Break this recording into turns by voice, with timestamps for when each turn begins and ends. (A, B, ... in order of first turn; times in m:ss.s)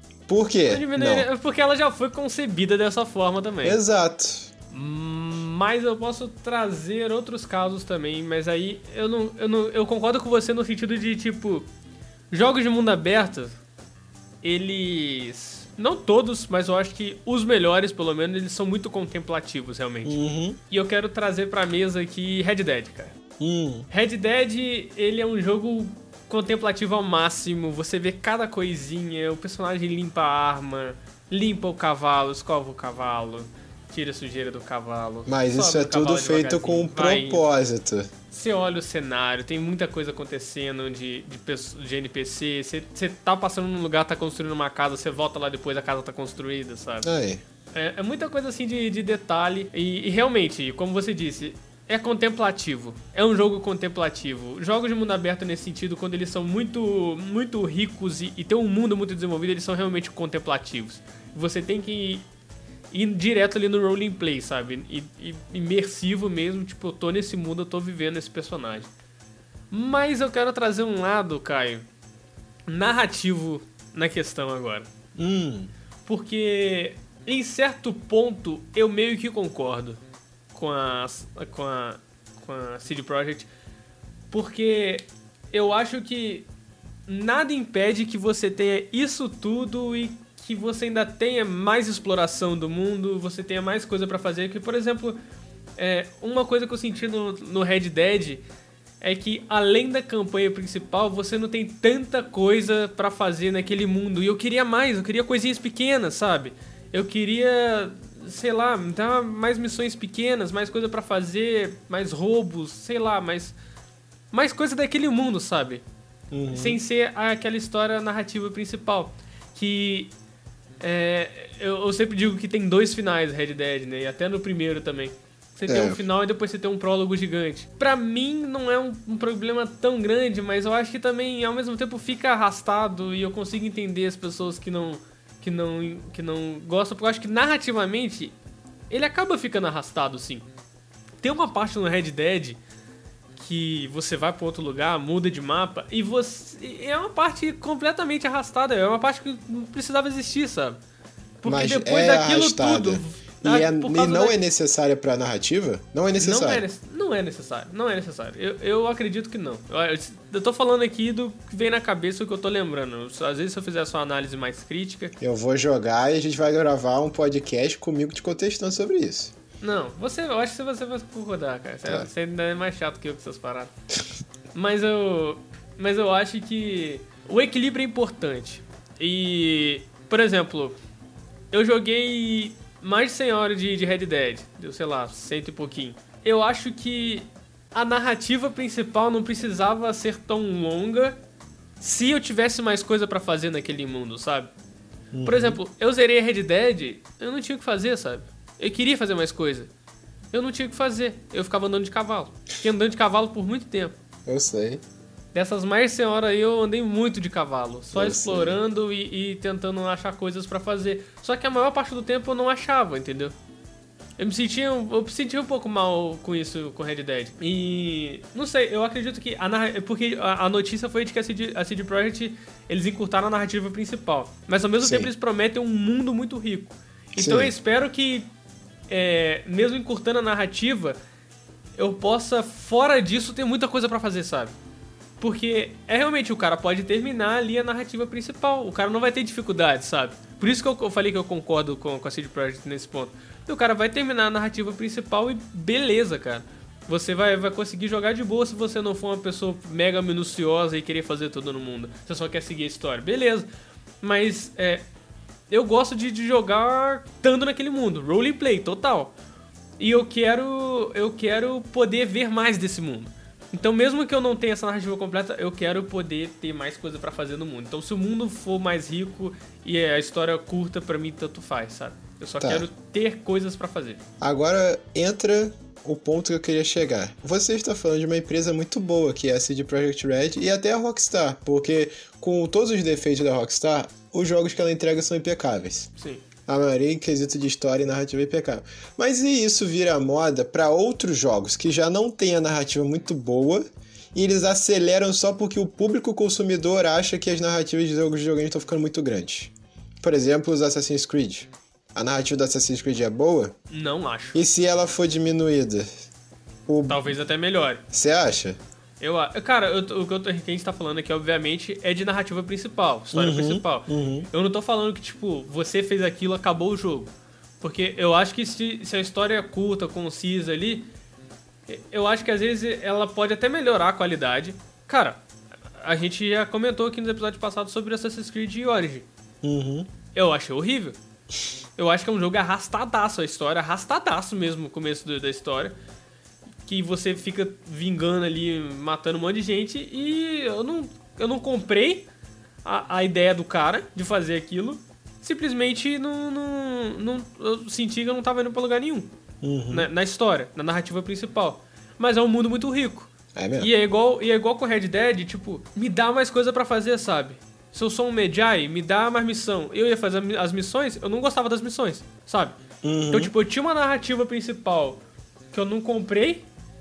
0:00.3-0:01.3 A
0:00.7-0:03.8 B
0:03.6-0:04.5 A
0:04.7-0:11.7 B
0:12.3-0:13.6 B
0:14.4-0:23.1 B
0:20.0-0:20.6 A
0:23.4-0:23.9 A
0:23.9-0:37.5 B
0:35.3-0:38.1 A
0:38.3-0:47.1 B
0:47.0-0:47.4 A
0:47.7-1:02.2 B
1:02.9-1:08.9 B
1:09.7-1:11.8 B
1:12.7-1:14.9 B
1:15.2-1:15.7 A
1:16.0-1:20.0 B
1:20.5-1:23.5 B
1:24.3-1:26.5 B
1:27.1-1:35.2 B
1:35.8-1:38.4 B
1:39.0-1:53.6 B
1:54.3-1:55.8 B
1:56.3-1:56.8 A
1:56.5-2:00.1 B
2:00.8-2:18.3 B
2:05.7-2:06.0 A
2:18.9-2:20.5 B
2:21.2-2:22.6 B
2:23.4-2:30.8 B
2:31.4-2:34.4 B
2:31.4-2:36.6 A
2:36.2-2:45.1 B
2:45.2-2:49.3 A
2:49.6-2:53.7 B
2:54.5-3:00.8 B
3:01.5-3:11.2 B
3:11.8-3:14.5 B
3:15.1-3:15.6 A
3:15.2-3:19.7 B
3:20.3-3:23.9 B
3:24.2-3:24.8 A
3:25.3-3:33.3 B
3:27.9-3:28.6 A
3:34.2-3:48.3 B
3:44.8-3:45.1 A
3:47.2-3:47.5 A
3:48.9-3:51.0 B
3:51.8-3:54.5 B
3:55.2-4:13.5 B
4:14.0-4:14.8 B
4:15.5-4:19.1 B
4:19.8-4:34.0 B
4:32.4-4:32.6 A
4:34.2-4:45.9 A
4:46.0-4:46.2 B
4:46.4-5:03.5 A
5:03.7-5:04.4 B
5:04.3-5:05.9 A
5:06.7-5:07.1 A
5:06.9-5:07.8 B
5:07.9-5:08.6 A
5:09.0-5:20.9 B
5:13.1-5:14.3 A
5:21.7-5:25.2 B
5:25.8-5:29.1 B
5:29.4-5:29.9 A
5:30.1-5:31.0 B
5:31.8-5:35.7 B
5:36.6-5:42.1 B
5:42.6-5:49.1 B
5:49.4-5:49.9 A
5:49.7-6:02.6 B
5:53.3-5:53.7 A
6:02.8-6:03.3 A
6:03.1-6:05.0 B
6:05.5-6:06.4 B